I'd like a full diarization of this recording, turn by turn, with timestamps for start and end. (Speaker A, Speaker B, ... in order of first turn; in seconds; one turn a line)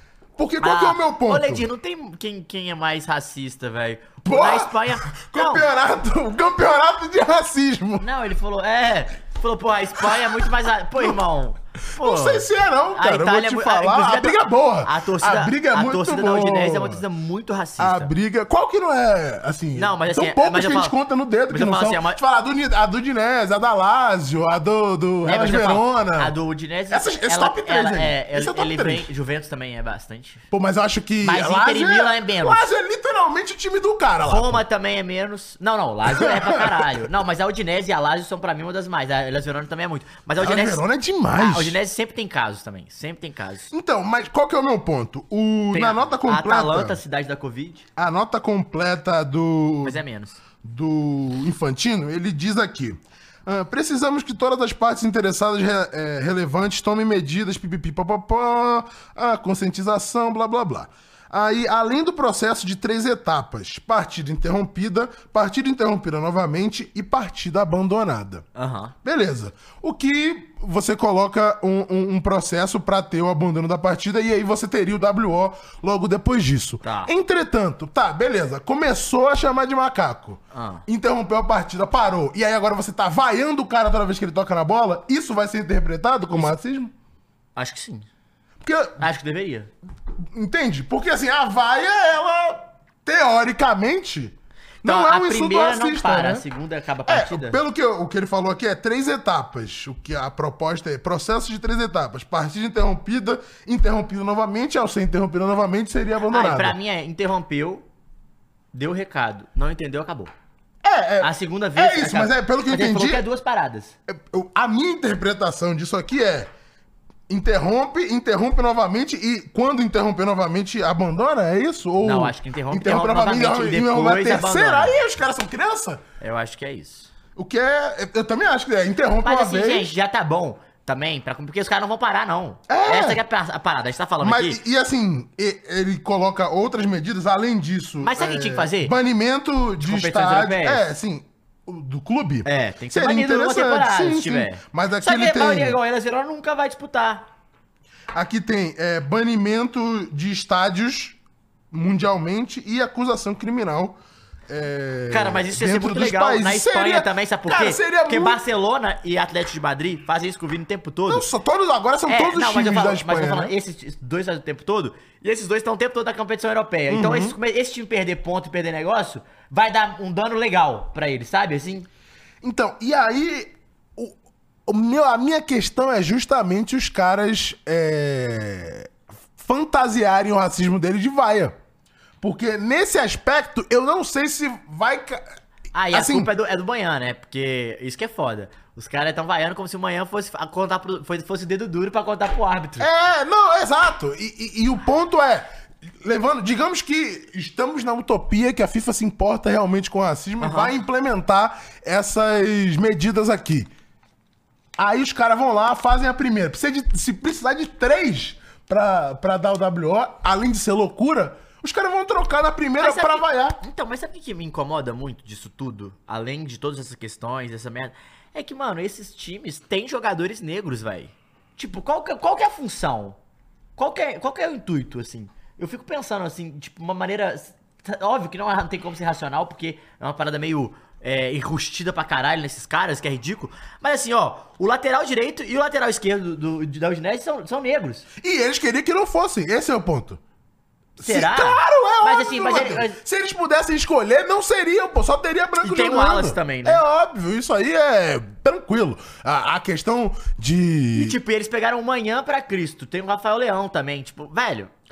Speaker A: 0.4-1.7
Speaker B: 0.6-5.7
Speaker A: 4.2-8.1
Speaker B: 8.0-18.1
Speaker A: 10.0-11.2
Speaker A: 11.9-17.0
Speaker A: 17.8-26.3
Speaker B: 19.7-20.9
Speaker B: 21.5-22.2
Speaker B: 25.2-30.4
Speaker A: 26.9-29.1
Speaker A: 30.5-34.6
Speaker B: 31.2-32.6
Speaker B: 34.2-40.8
Speaker A: 36.1-37.0
Speaker A: 40.4-41.8
Speaker B: 41.3-43.7
Speaker A: 43.7-47.0
Speaker B: 45.7-47.9
Speaker A: 48.0-50.0
Speaker B: 49.8-50.4
Speaker A: 50.6-68.4
Speaker B: 68.5-68.9
Speaker A: 69.0-86.9
Speaker B: 76.8-77.1
Speaker B: 80.5-80.8
Speaker B: 87.5-88.0
Speaker A: 88.6-89.1
Speaker B: 89.0-89.7
Speaker A: 90.3-96.4
Speaker B: 94.8-97.6
Speaker A: 97.1-106.8
Speaker B: 106.3-107.8
Speaker B: 108.7-110.3
Speaker A: 110.8-113.2
Speaker B: 111.2-113.9
Speaker A: 114.1-116.5
Speaker A: 117.3-126.0
Speaker B: 122.0-125.0
Speaker B: 126.2-127.1
Speaker A: 127.3-129.9
Speaker B: 129.2-134.6
Speaker A: 132.7-133.2
Speaker A: 134.2-145.8
Speaker B: 138.0-138.9
Speaker B: 139.8-140.8
Speaker B: 142.4-147.2
Speaker A: 148.1-151.2
Speaker A: 151.7-154.0
Speaker A: 154.5-158.4
Speaker B: 155.1-161.3
Speaker A: 161.1-163.5
Speaker B: 162.1-171.9
Speaker A: 166.9-167.3
Speaker A: 172.4-174.1
Speaker A: 174.7-181.6
Speaker A: 182.2-185.2
Speaker B: 185.7-192.9
Speaker A: 185.9-186.3
Speaker A: 192.8-195.5
Speaker A: 196.0-203.7
Speaker B: 200.4-200.7
Speaker A: 204.8-213.6
Speaker B: 212.8-223.2
Speaker B: 223.8-238.1
Speaker A: 238.2-240.2
Speaker A: 241.0-251.2
Speaker B: 241.0-243.0
Speaker B: 245.6-246.8
Speaker B: 250.9-254.7